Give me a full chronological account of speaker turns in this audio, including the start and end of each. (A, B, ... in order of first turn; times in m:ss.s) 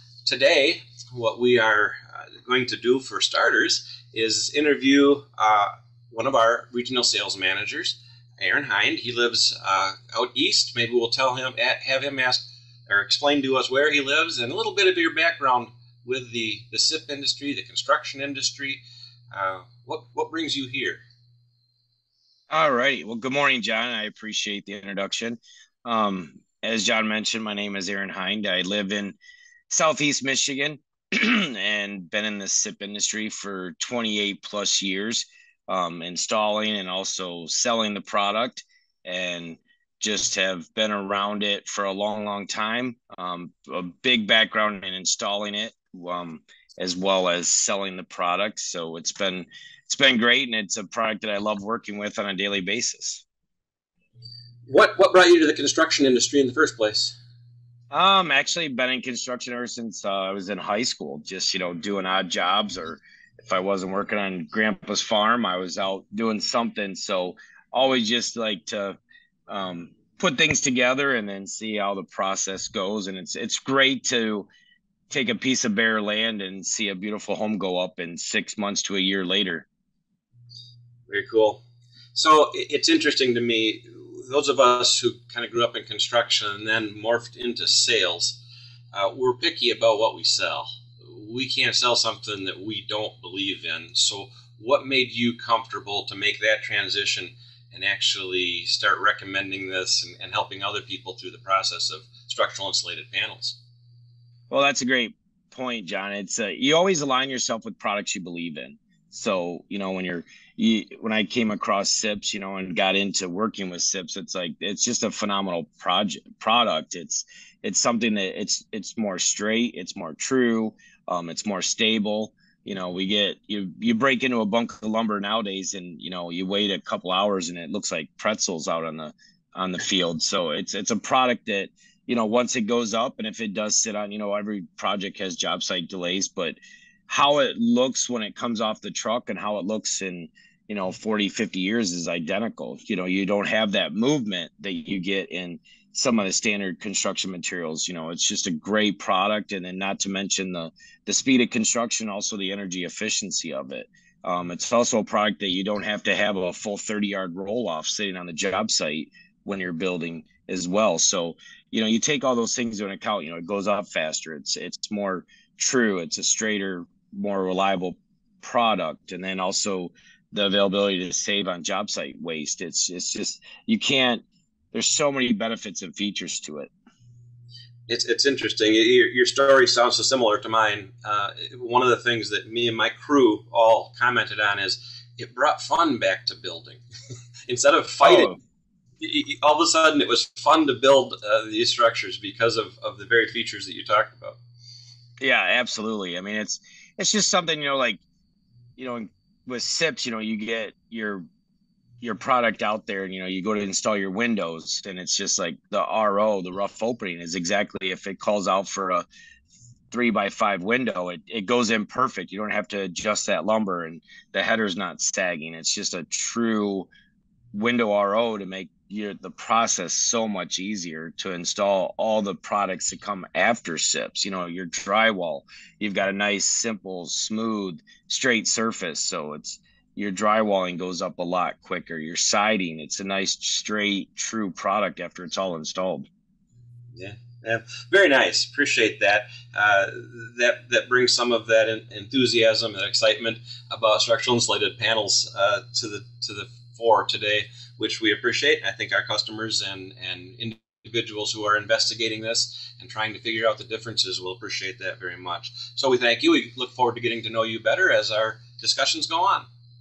0:00.2-0:21.0 A
0:22.5-0:29.2 B
0:29.7-0:53.2 B
0:54.7-0:57.2 A
0:57.9-1:14.5 B
1:15.1-1:19.6 B
1:21.1-1:21.6 A
1:22.1-1:28.4 A
1:28.9-1:43.6 A
1:44.5-2:16.6 B
2:17.1-2:56.7 B
2:57.9-3:06.8 A
3:07.5-3:08.3 A
3:08.0-3:08.3 B
3:09.0-3:14.4 A
3:15.2-3:18.0 B
3:18.8-3:21.2 B
3:22.0-3:29.0 B
3:29.9-3:36.9 B
3:37.5-3:56.1 B
3:56.9-4:19.5 A